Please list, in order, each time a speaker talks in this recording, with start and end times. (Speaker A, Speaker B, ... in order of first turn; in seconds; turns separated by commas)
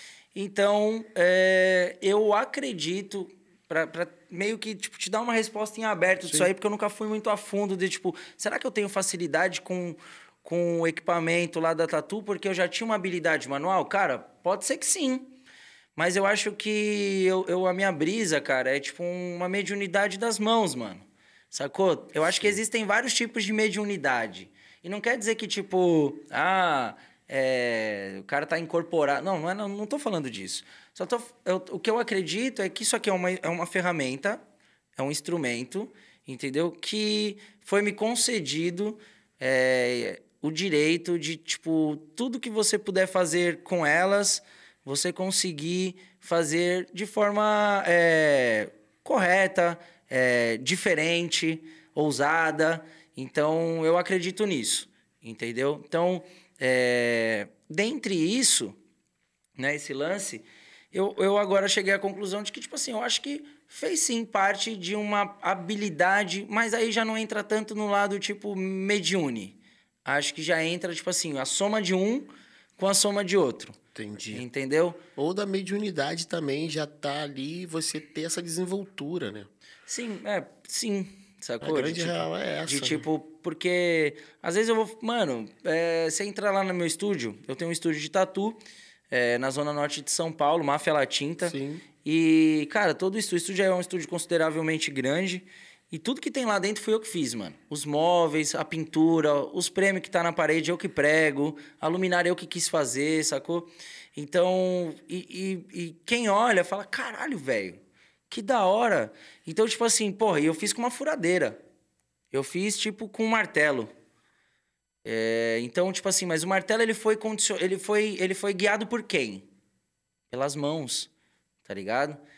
Speaker A: 0.3-15.3, Speaker A: 15.9-34.4, Speaker B: 22.3-22.6, Speaker A: 35.0-58.8, Speaker A: 59.6-73.8, Speaker B: 73.9-74.4, Speaker A: 74.3-75.0, Speaker B: 75.2-79.5, Speaker A: 79.9-88.6, Speaker B: 81.6-83.0, Speaker A: 89.1-111.6, Speaker B: 91.4-91.8, Speaker A: 112.3-113.9, Speaker A: 115.0-119.5, Speaker A: 120.3-121.1, Speaker A: 121.6-122.2